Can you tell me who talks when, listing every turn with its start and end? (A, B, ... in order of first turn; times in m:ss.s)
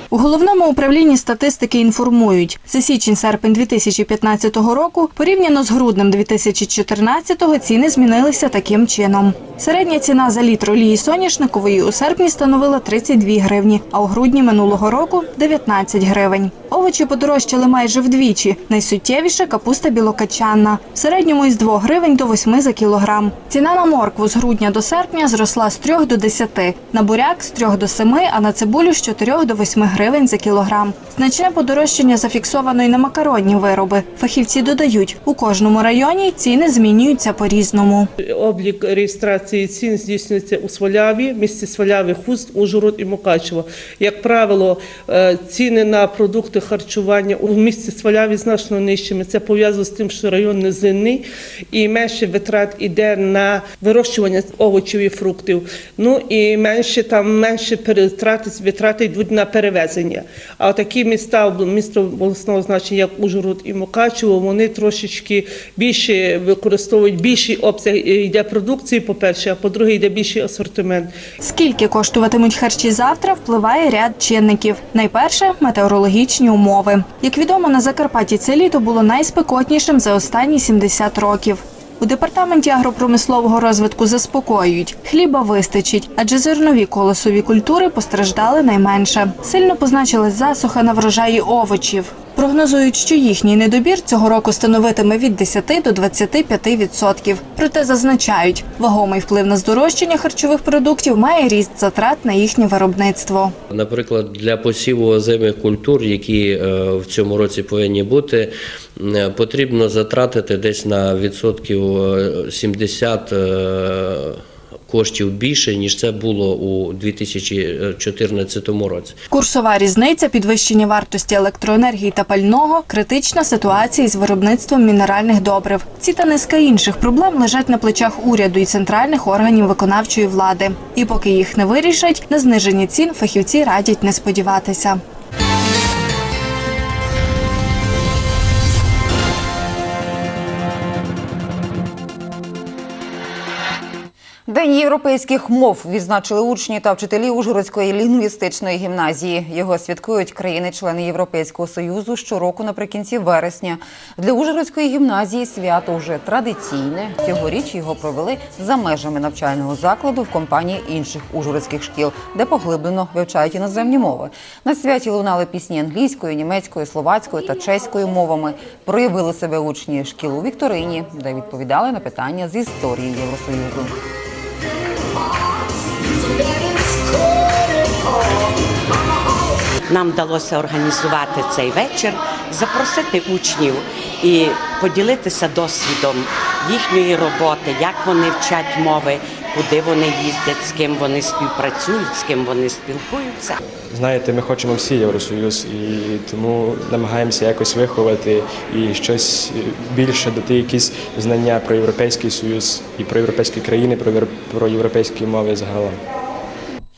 0:00.1-0:38.1 A
0:38.3-1:11.1 B
1:11.4-1:43.5 A
1:43.7-1:59.1 C
1:59.3-2:15.0 A
2:24.5-2:53.9 D
2:59.9-3:13.6 E
3:13.9-3:26.0 F